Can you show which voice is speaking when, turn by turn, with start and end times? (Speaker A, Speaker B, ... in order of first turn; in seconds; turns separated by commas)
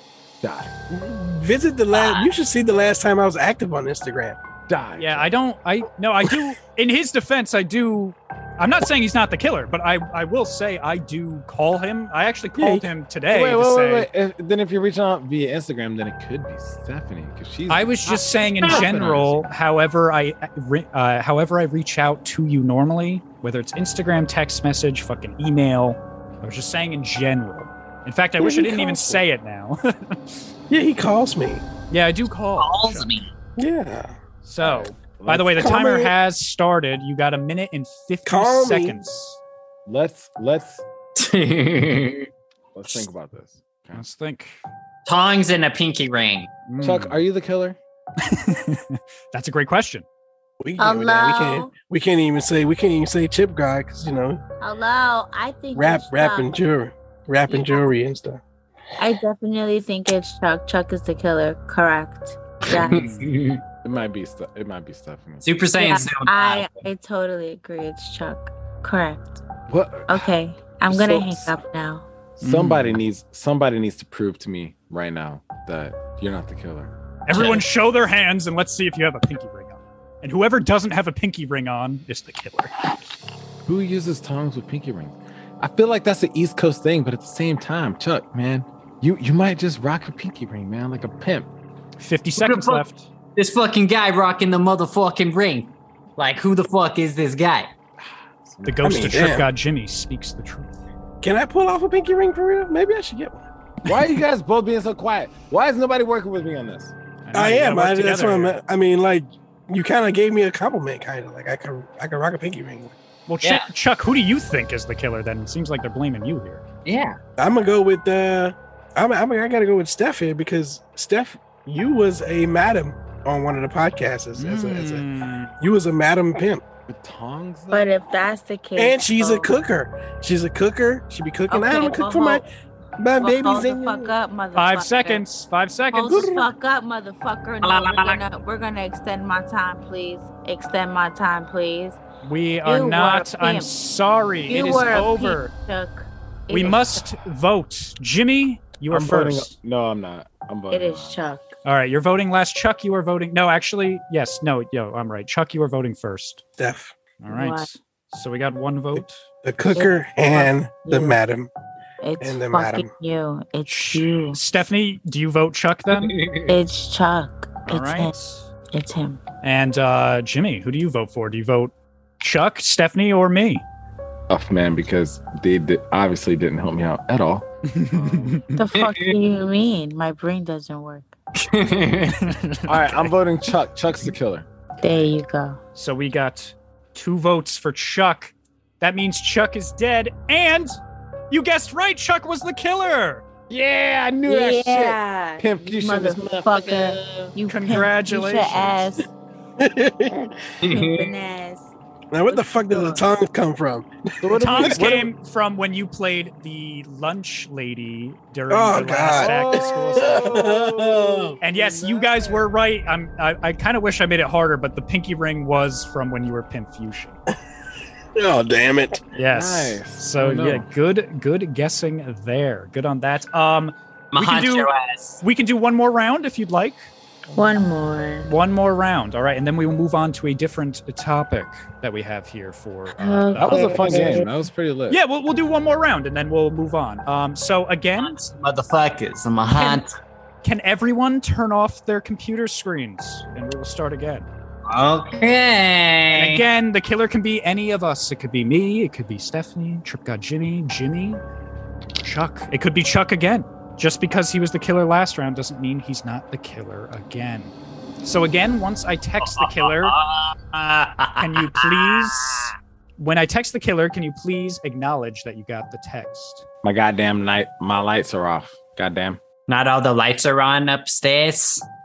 Speaker A: 0.4-0.7, Speaker B: 0.9-4.4, Speaker C: 1.9-2.3, Speaker A: 4.7-5.3, Speaker D: 5.0-14.1, Speaker B: 12.6-12.9, Speaker A: 13.3-19.4, Speaker D: 17.7-30.4, Speaker C: 18.6-19.1, Speaker B: 28.4-29.2, Speaker B: 30.7-31.6, Speaker D: 31.9-33.1, Speaker C: 32.6-33.3, Speaker B: 33.6-34.2, Speaker D: 34.4-39.4, Speaker A: 34.6-35.8, Speaker B: 35.6-36.1, Speaker B: 38.2-39.0, Speaker A: 39.9-40.9, Speaker C: 41.2-42.3, Speaker A: 42.7-44.0, Speaker D: 43.9-44.6, Speaker C: 45.1-46.5, Speaker D: 46.7-47.2, Speaker A: 46.8-47.8, Speaker D: 48.2-50.1, Speaker B: 50.6-54.4, Speaker E: 50.8-51.7, Speaker E: 54.6-56.5, Speaker B: 55.8-58.4, Speaker E: 57.5-57.8, Speaker E: 59.0-63.1, Speaker C: 62.7-63.6, Speaker D: 62.9-63.3, Speaker A: 63.8-65.5, Speaker C: 65.4-66.8, Speaker E: 65.8-69.4, Speaker A: 69.7-70.3, Speaker E: 70.1-72.1, Speaker A: 70.9-71.6, Speaker A: 72.4-76.9, Speaker D: 72.4-73.0, Speaker D: 77.3-82.7, Speaker C: 77.3-77.6, Speaker A: 83.7-91.5, Speaker D: 92.0-93.1, Speaker C: 92.3-92.8, Speaker C: 93.4-97.7, Speaker A: 98.0-98.9, Speaker D: 98.6-100.7, Speaker B: 98.8-99.5, Speaker B: 101.2-103.4, Speaker D: 103.9-104.2, Speaker A: 103.9-106.9, Speaker D: 107.2-108.6, Speaker B: 107.3-113.0, Speaker D: 113.3-116.6, Speaker C: 113.4-113.7, Speaker C: 116.9-117.2, Speaker B: 117.4-125.0, Speaker D: 124.4-125.5, Speaker B: 125.6-126.7, Speaker A: 126.9-127.9, Speaker E: 127.7-129.5, Speaker B: 128.8-132.5, Speaker E: 131.5-132.4, Speaker B: 133.0-134.1, Speaker E: 133.2-135.2, Speaker D: 134.6-136.3, Speaker E: 135.9-142.0, Speaker B: 136.1-136.5, Speaker C: 137.6-138.2, Speaker D: 142.2-145.5, Speaker E: 142.6-143.7, Speaker E: 144.5-147.0, Speaker D: 146.5-149.6, Speaker A: 148.9-151.2, Speaker E: 150.7-151.6, Speaker D: 151.7-156.4, Speaker B: 156.6-157.0, Speaker D: 157.2-159.2, Speaker E: 157.3-157.7, Speaker B: 159.0-161.5, Speaker E: 159.7-161.2, Speaker E: 162.0-164.4, Speaker B: 162.2-162.9, Speaker D: 163.7-166.2, Speaker C: 165.9-166.6, Speaker E: 166.5-168.1, Speaker D: 167.7-168.5, Speaker E: 168.7-169.2, Speaker D: 169.4-173.7, Speaker A: 174.3-178.4, Speaker D: 177.7-178.6, Speaker E: 178.6-181.1, Speaker C: 178.8-179.1, Speaker C: 181.4-182.2, Speaker D: 182.1-183.1, Speaker A: 182.7-184.5, Speaker E: 184.8-185.6, Speaker D: 185.8-190.8, Speaker D: 191.3-193.2, Speaker A: 193.5-196.8, Speaker E: 194.3-199.1, Speaker D: 197.5-198.8, Speaker B: 199.6-200.3, Speaker C: 200.6-201.1, Speaker E: 200.7-201.7, Speaker B: 202.1-204.9, Speaker E: 202.3-203.0, Speaker A: 204.2-205.1, Speaker D: 204.3-210.3, Speaker B: 208.5-211.4, Speaker A: 209.1-212.4, Speaker D: 211.4-217.2, Speaker B: 218.2-219.1, Speaker D: 219.2-226.8, Speaker A: 219.3-220.7, Speaker C: 224.1-225.2, Speaker E: 227.3-228.3, Speaker D: 228.2-234.2, Speaker E: 233.0-234.3, Speaker A: 233.4-235.0, Speaker D: 234.9-238.2, Speaker C: 238.0-239.9, Speaker D: 239.5-239.8, Speaker D: 240.4-244.3, Speaker C: 244.7-246.4, Speaker D: 246.1-251.2, Speaker D: 252.0-259.9, Speaker C: 259.2-262.6, Speaker D: 261.2-266.4, Speaker A: 266.6-269.2, Speaker C: 269.5-271.6